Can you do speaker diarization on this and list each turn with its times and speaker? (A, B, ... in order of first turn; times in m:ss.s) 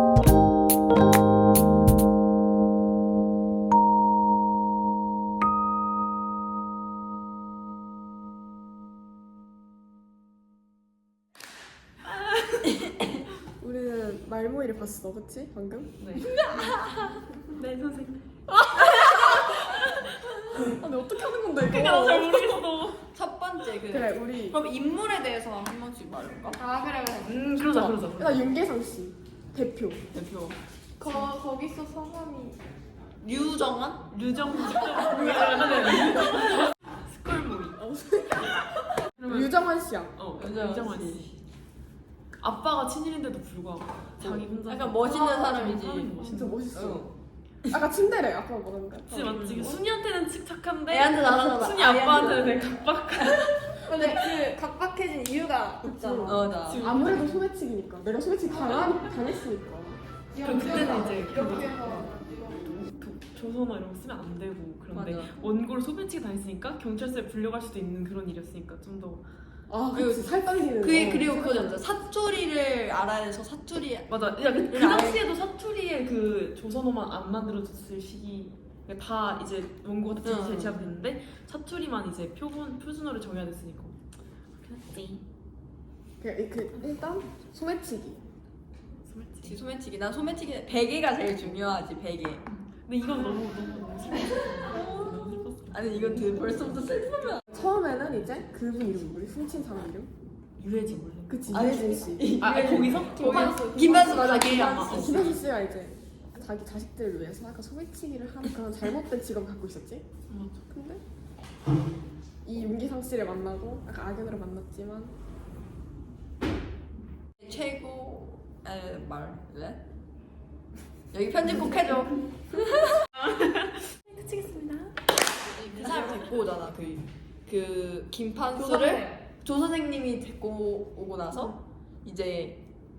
0:13.6-0:15.9 A
0:16.0-0:16.7 B
0:17.5-0:18.5 B
0:19.7-0:20.1 B
0:20.5-0:22.6 A
0:21.6-0:23.0 B
0:23.1-0:26.6 C
0:23.8-0:24.6 A
0:26.5-0:27.4 D
0:27.3-0:28.4 B
0:27.6-0:30.0 A
0:30.2-0:30.5 C
0:31.0-0:32.6 D
0:33.2-0:34.0 C
0:34.1-0:37.8 B
0:34.6-0:36.2 C
0:35.1-0:35.4 A
0:35.9-0:36.3 A
0:37.8-0:40.2 A
0:39.2-0:39.6 B
0:40.2-0:41.4 B
0:40.4-0:41.3 C
0:42.4-0:46.6 B
0:44.6-0:46.2 C
0:46.2-0:47.1 A
0:46.7-0:47.1 C
0:47.7-0:49.8 A
0:49.1-0:53.8 B
0:50.9-0:52.7 C
0:53.9-0:56.3 D
0:53.9-0:54.4 C
0:55.8-1:00.0 A
0:56.2-0:56.9 C
0:56.6-0:57.4 B
1:00.3-1:02.8 D
1:00.4-1:02.1 B
1:02.8-1:09.3 B
1:04.9-1:05.5 C
1:09.7-1:11.8 A
1:09.9-1:15.2 C
1:14.1-1:24.0 B
1:20.2-1:20.9 C
1:24.6-1:25.2 B
1:26.2-1:28.2 A
1:29.0-1:29.6 B
1:29.4-1:32.4 C
1:32.7-1:36.8 B
1:34.6-1:37.4 C
1:37.5-1:40.1 A
1:40.6-1:41.7 B
1:41.3-1:42.4 A
1:41.5-1:45.4 C
1:42.4-1:45.4 B
1:44.9-1:50.0 A
1:50.3-1:50.6 B
1:50.7-1:51.0 A
1:52.4-1:55.1 A
1:57.4-1:59.8 C
2:01.1-2:03.0 C
2:05.6-2:12.6 C
2:08.6-2:09.1 D